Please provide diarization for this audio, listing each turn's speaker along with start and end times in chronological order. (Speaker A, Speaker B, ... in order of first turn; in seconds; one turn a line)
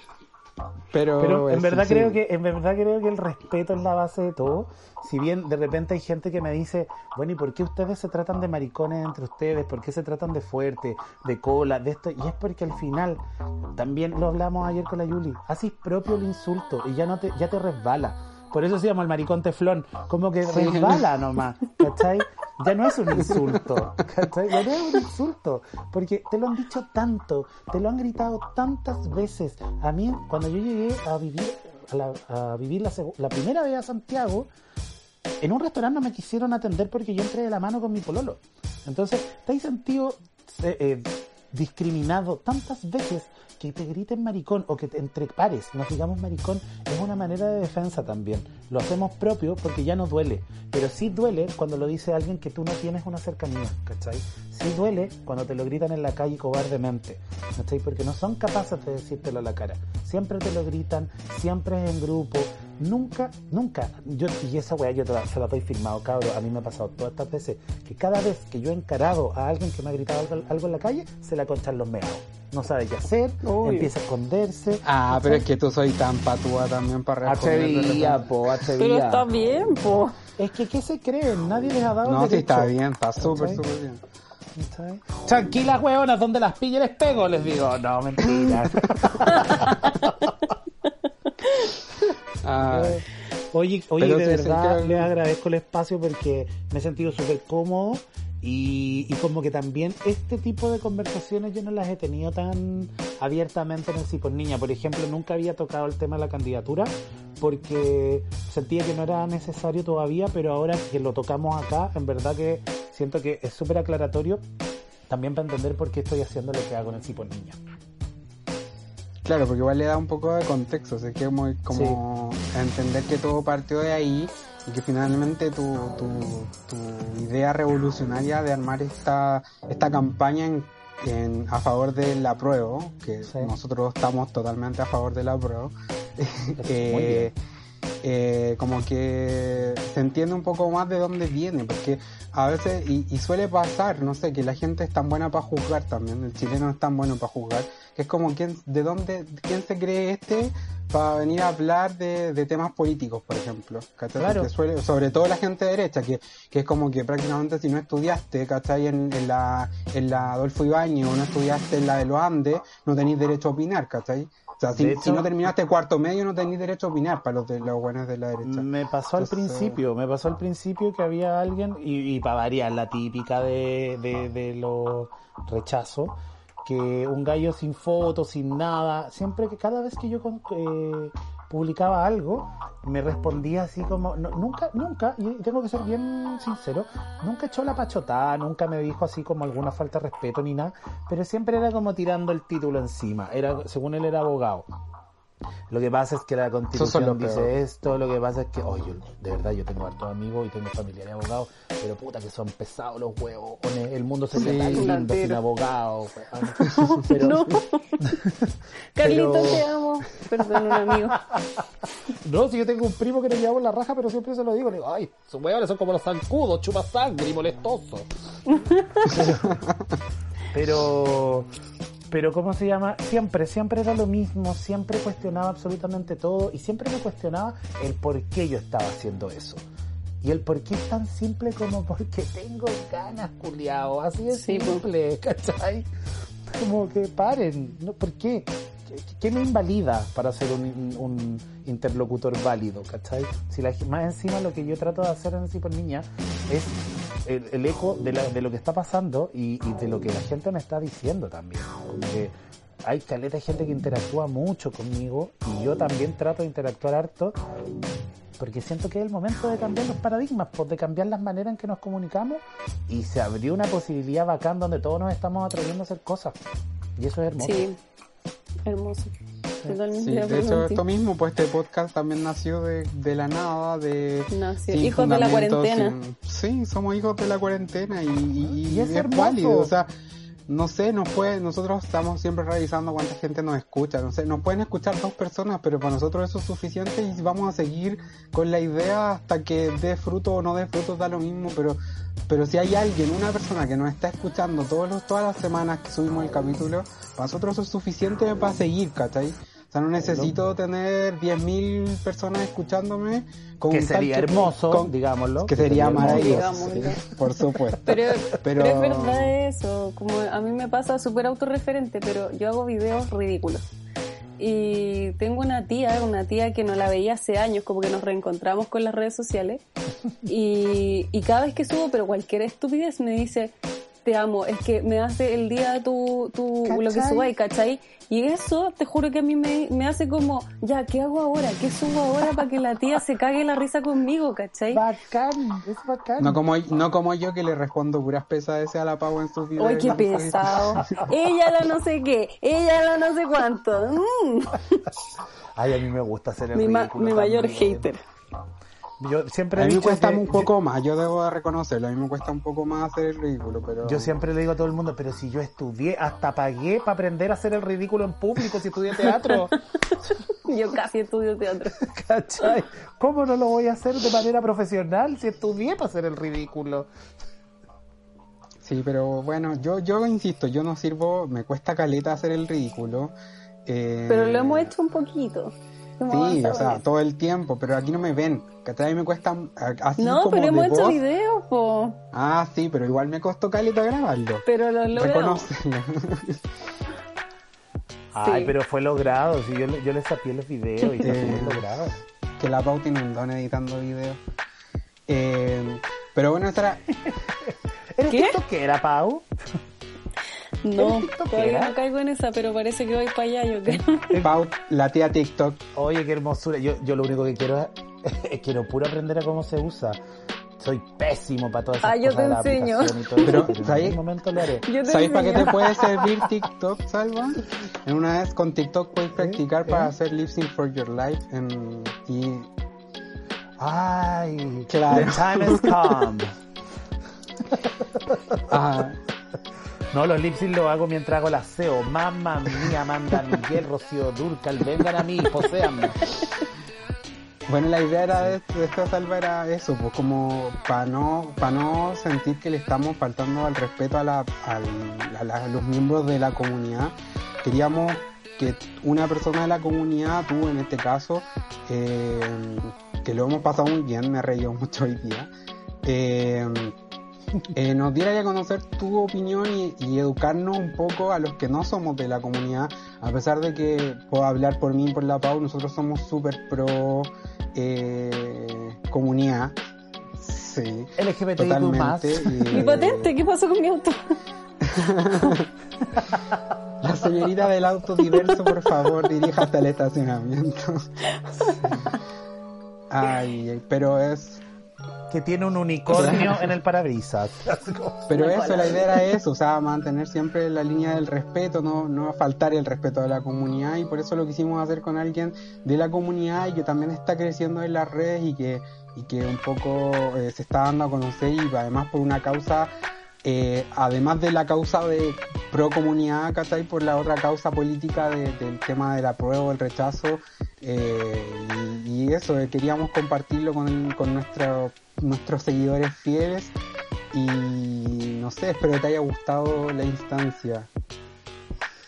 Speaker A: 0.9-2.2
Speaker B: 1.2-13.2
Speaker B: 13.7-34.5
Speaker A: 20.5-21.0
Speaker B: 35.4-75.4
Speaker C: 73.4-73.9
Speaker A: 74.8-78.2
Speaker B: 77.2-79.3
Speaker C: 78.8-80.2
Speaker B: 80.4-83.6
Speaker A: 82.0-84.0
Speaker B: 84.5-90.3
Speaker A: 88.5-89.0
Speaker C: 89.3-89.7
Speaker C: 91.4-91.7
Speaker A: 92.4-93.1
Speaker B: 92.6-114.4
Speaker A: 94.0-95.1
Speaker B: 115.1-117.6
Speaker A: 119.2-137.3
Speaker B: 121.7-122.0
Speaker B: 133.2-133.5
Speaker B: 136.6-137.3
Speaker A: 138.0-169.8
Speaker B: 154.2-154.5
Speaker B: 164.7-165.5
Speaker B: 168.4-194.7
Speaker B: 195.7-209.7
Speaker A: 196.7-197.5
Speaker A: 204.3-204.9
Speaker C: 204.4-205.4
Speaker C: 206.4-208.2
Speaker C: 208.9-211.2
Speaker B: 210.3-211.6
Speaker B: 212.2-218.1
Speaker C: 218.5-219.2
Speaker B: 219.0-219.6
Speaker B: 220.5-221.5
Speaker B: 222.1-229.6
Speaker B: 230.2-235.9
Speaker C: 234.3-234.8
Speaker B: 236.4-252.3
Speaker B: 252.8-257.4
Speaker B: 258.4-266.4
Speaker B: 267.0-267.7
Speaker C: 267.4-267.8
Speaker C: 268.6-269.1
Speaker C: 269.6-270.8
Speaker A: 269.9-279.9
Speaker C: 274.3-275.9
Speaker B: 278.7-279.7
Speaker A: 280.5-309.4
Speaker B: 300.0-300.3
Speaker B: 303.7-306.9
Speaker C: 305.9-307.0
Speaker C: 307.8-313.7
Speaker C: 314.4-319.6
Speaker C: 320.2-334.8
Speaker B: 326.6-327.3
Speaker B: 334.7-336.4
Speaker A: 336.2-341.1
Speaker C: 339.6-344.9
Speaker B: 345.5-347.9
Speaker C: 346.5-348.0
Speaker B: 349.0-350.5
Speaker A: 349.6-354.1
Speaker B: 353.8-359.6
Speaker C: 359.9-361.8
Speaker B: 361.7-366.9
Speaker A: 368.6-373.1
Speaker A: 373.6-374.7
Speaker C: 374.1-376.8
Speaker A: 376.1-381.0
Speaker C: 380.0-382.0
Speaker A: 382.1-386.4
Speaker C: 384.4-385.5
Speaker B: 388.1-392.0
Speaker C: 388.2-388.5
Speaker C: 390.8-391.1
Speaker A: 391.0-391.7
Speaker A: 392.4-394.2
Speaker A: 395.1-397.0
Speaker B: 397.0-399.6
Speaker C: 398.1-398.4
Speaker C: 400.6-404.2
Speaker B: 400.8-401.8
Speaker B: 403.6-404.3
Speaker A: 404.2-405.6
Speaker B: 405.7-410.0
Speaker B: 410.6-414.6
Speaker C: 411.8-413.5
Speaker A: 413.2-414.0
Speaker C: 414.6-416.0
Speaker A: 414.8-422.5
Speaker B: 419.1-419.9
Speaker B: 423.6-426.3
Speaker A: 424.7-425.8
Speaker B: 427.5-428.6
Speaker A: 428.5-429.0
Speaker B: 429.9-436.1
Speaker A: 437.5-455.3
Speaker A: 455.8-456.7
Speaker A: 457.5-469.6
Speaker A: 470.2-473.1
Speaker B: 471.0-472.7
Speaker C: 472.5-474.2
Speaker A: 474.6-475.5
Speaker B: 475.9-476.4
Speaker A: 476.8-480.9
Speaker C: 478.1-478.3
Speaker C: 481.1-482.0
Speaker A: 482.9-484.4
Speaker B: 485.1-488.2
Speaker A: 485.9-486.5
Speaker A: 488.1-502.7
Speaker C: 488.1-489.0
Speaker A: 503.2-516.5
Speaker A: 517.1-520.7